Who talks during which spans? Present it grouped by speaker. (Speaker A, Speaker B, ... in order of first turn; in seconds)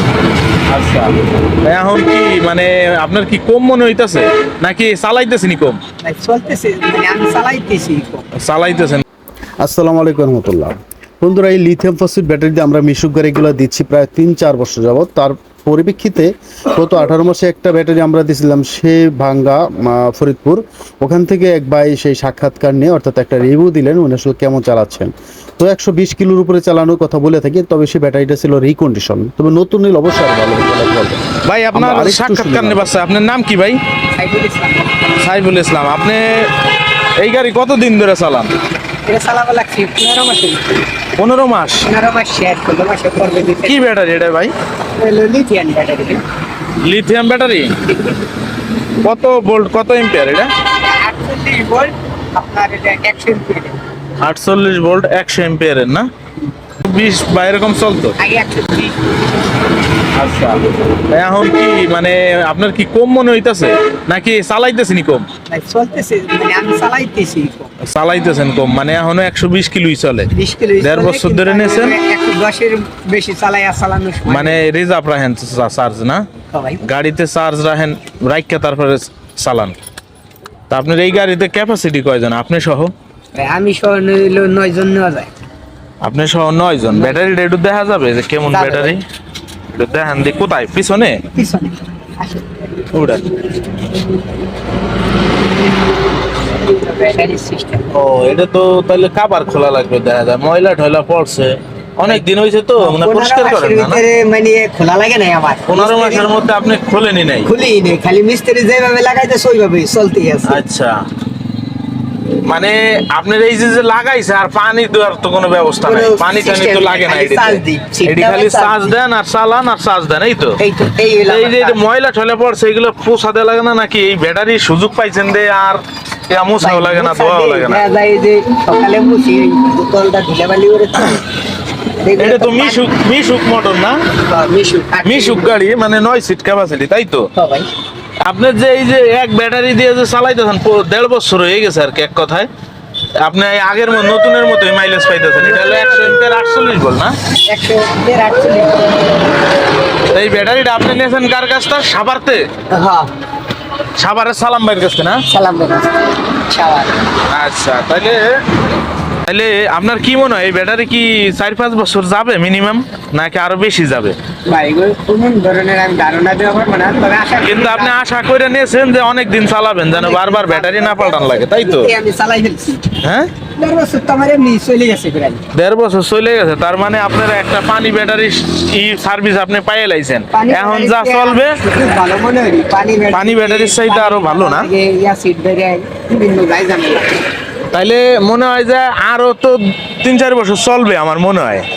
Speaker A: 0.7-1.1, 1.6-5.8, 8.3-9.0, 31.4-33.8, 35.2-36.5, 37.2-38.5, 41.2-41.9, 43.6-44.5, 46.8-47.8, 49.0-50.5, 54.2-56.1, 56.8-58.2, 60.1-65.3, 67.8-72.0, 74.3-76.2, 76.8-79.8, 80.7-82.9, 86.0-89.0, 89.7-91.2, 92.9-93.3, 97.9-104.0, 105.7-107.5, 110.4-111.0, 112.4-120.6, 121.2-127.8, 132.2-134.0, 135.0-137.3, 138.2-142.5, 143.2-147.1, 150.1-152.5, 154.0-155.2, 157.3-158.4, 159.2-164.2, 167.4-171.9, 173.0-173.3, 175.5-181.6, 183.1-184.7, 187.7-191.7
Speaker B: 6.0-8.2, 34.2-35.0, 39.0-40.6, 41.9-43.9, 45.0-46.2, 47.9-48.2, 50.8-53.8, 58.2-58.9, 65.5-67.7, 70.3-74.6, 76.5-76.8, 83.3-85.3, 86.9-87.2, 88.5-89.0, 91.3-92.9, 96.6-97.9, 102.8-106.3, 107.4-110.6, 115.8-119.0, 120.6-121.8, 126.6-131.3, 132.0-132.9, 134.3-135.5, 137.3-137.7, 145.6-146.1, 147.5-149.1, 152.7-153.1, 155.3-157.0, 164.4-167.9, 169.9-173.0, 173.6-175.4, 180.3-187.2
Speaker C: 9.6-31.2, 31.7-32.9